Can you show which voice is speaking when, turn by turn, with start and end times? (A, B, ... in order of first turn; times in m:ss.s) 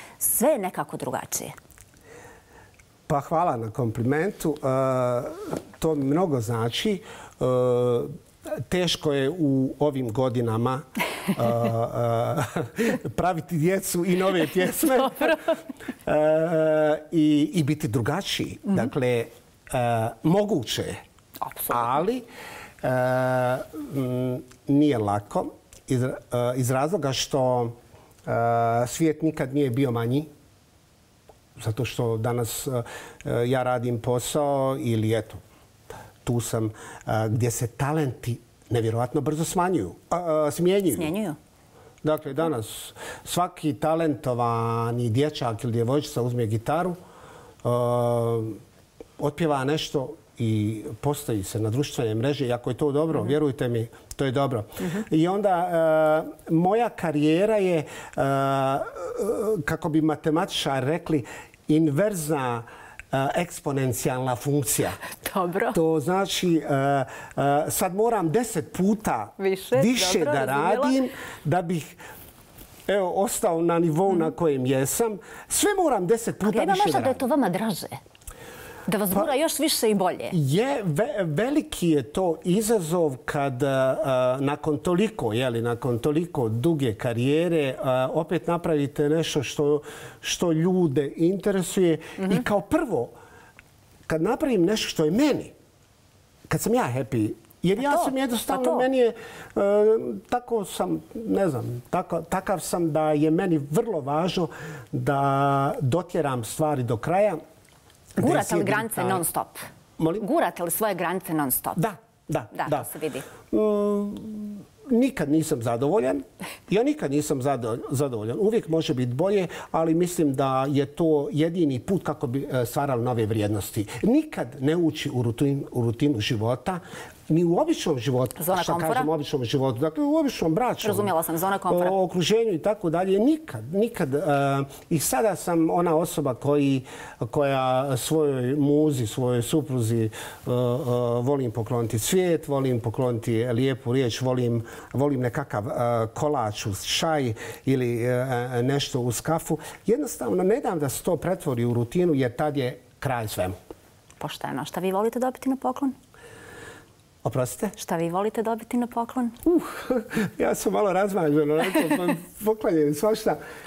0:00.2-0:01.5 A
0:03.1-0:15.4 B
0:16.0-0:21.0 B
0:21.4-0:22.0 A
0:21.7-0:22.3 B
0:22.8-0:30.3 B
0:31.6-0:35.4 B
0:36.2-0:41.1 B
0:40.9-0:41.4 A
0:42.0-0:47.0 B
0:47.6-0:48.6 B
0:49.2-1:05.0 B
1:05.2-1:05.8 A
1:05.7-1:12.0 B
1:09.4-1:10.9 A
1:12.9-1:17.2 B
1:16.4-1:18.0 A
1:18.9-1:20.4 A
1:20.3-1:33.1 B
1:34.1-1:35.5 B
1:36.5-1:47.4 B
1:37.8-1:38.8 A
1:48.2-1:49.2 B
1:48.2-1:49.6 A
1:50.0-1:50.2 B
1:50.2-1:51.8 A
1:51.8-1:52.9 B
1:52.5-1:53.2 A
1:53.5-2:11.1 B
2:08.4-2:09.1 A
2:10.8-2:11.9 A
2:11.7-2:33.6 B
2:34.2-2:35.9 A
2:37.2-2:37.7 B
2:37.8-2:39.4 A
2:39.4-2:43.4 B